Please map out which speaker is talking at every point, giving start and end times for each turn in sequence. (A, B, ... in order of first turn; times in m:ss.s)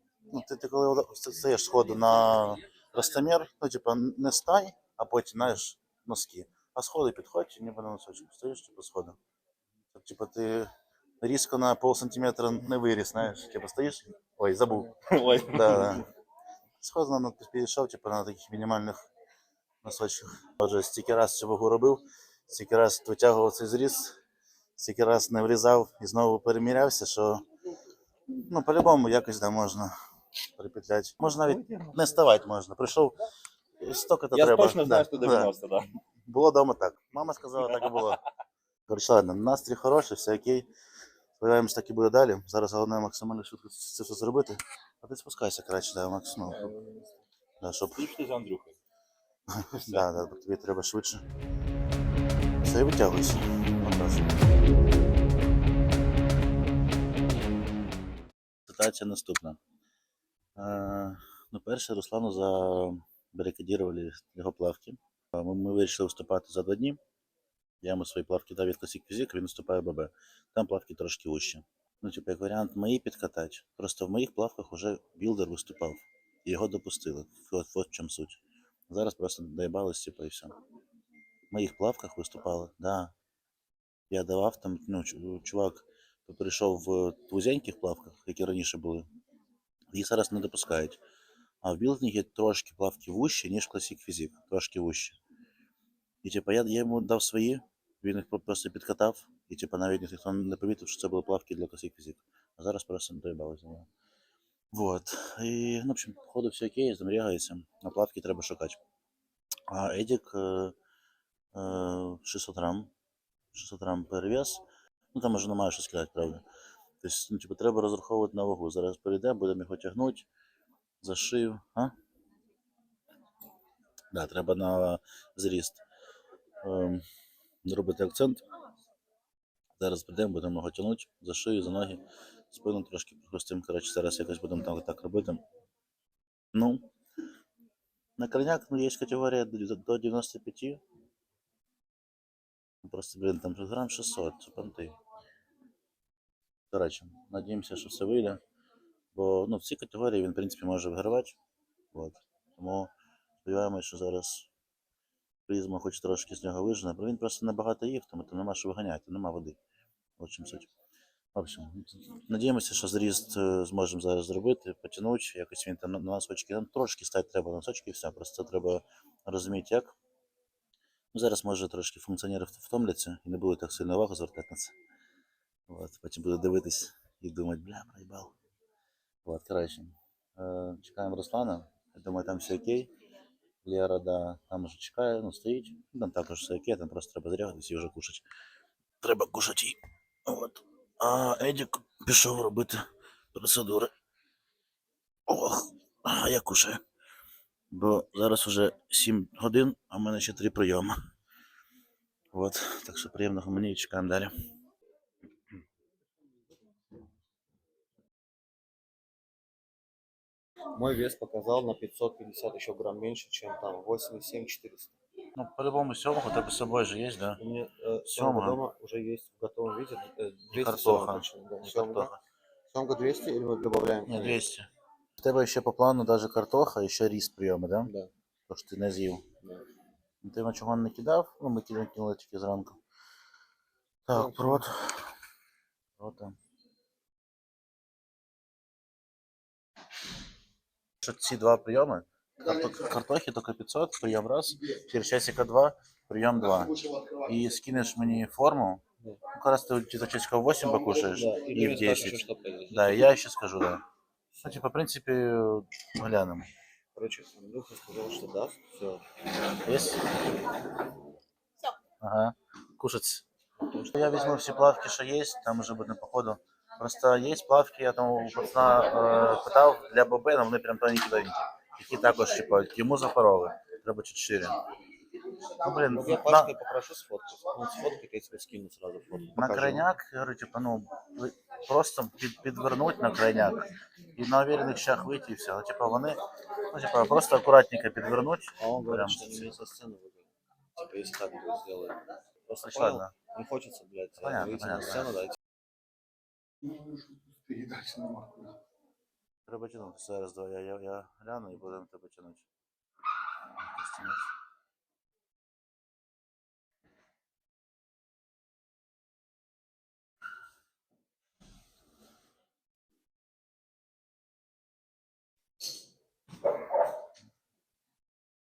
0:00.3-0:09.2 A
0:09.9-0:14.9 A
0:15.1-0:16.0 B
0:15.4-0:16.1 A
0:16.8-0:19.0 A
0:19.8-0:24.2 A
0:24.8-0:27.4 A
0:28.3-0:29.9 A
0:30.6-0:33.2 A
0:31.2-0:32.0 B
0:33.8-0:35.6 A
0:34.3-0:35.9 B
0:36.3-0:38.2 A
0:38.9-0:40.7 A
0:41.4-0:46.8 A
0:47.6-0:48.1 A
0:48.0-0:48.8 B
0:49.5-0:51.2 A
0:52.6-0:54.3 A
0:58.7-0:59.6 A
1:00.6-1:07.0 A
1:07.8-1:20.5 A
1:21.5-1:23.1 A
1:24.1-1:29.1 A
1:29.9-1:31.0 A
1:31.6-1:35.2 A
1:36.2-1:43.9 A
1:44.7-1:48.8 A
1:49.7-1:50.8 A
1:51.5-1:52.9 A
1:53.5-1:56.4 A
1:57.0-2:00.3 A
2:01.0-2:01.9 A
2:04.1-2:05.8 A
2:06.6-2:07.0 A
2:07.6-2:08.4 A
2:09.8-2:15.4 A
2:16.5-2:16.9 A
2:18.2-2:20.8 A
2:22.8-2:25.0 A
2:26.7-2:28.4 A
2:29.1-2:31.4 A
2:31.9-2:32.9 A
2:33.4-2:34.5 A
2:35.5-2:39.6 A
2:40.2-2:40.7 A
2:41.3-2:50.0 A
2:51.1-2:54.7 A
2:55.7-2:58.3 A
2:59.2-3:02.9 A
3:03.6-3:08.2 A
3:09.0-3:13.9 A
3:15.3-3:16.8 A
3:17.7-3:21.0 A
3:22.3-3:24.4 A
3:30.8-3:35.0 C
3:35.4-3:37.4 A
3:37.4-3:42.1 C
3:38.1-3:38.6 A
3:40.5-3:42.2 A
3:42.7-3:44.4 C
3:44.1-3:47.9 A
3:47.8-3:48.1 C
3:48.5-3:49.2 A
3:50.2-3:52.8 A
3:54.1-3:55.1 A
3:54.1-3:54.6 C
3:56.0-3:56.4 A
4:01.0-4:13.8 A
4:11.1-4:13.1 C
4:14.4-4:16.5 A
4:17.0-4:19.0 C
4:19.6-4:20.1 A
4:22.0-4:23.2 A
4:23.7-4:24.2 C
4:23.9-4:34.6 A
4:35.6-4:36.6 A
4:35.9-4:39.9 C
4:39.4-4:49.4 A
4:48.6-4:55.4 C
4:52.6-4:53.1 A
4:54.2-4:55.2 A
4:57.5-4:58.4 C
4:59.5-5:02.5 A
5:03.6-5:04.3 A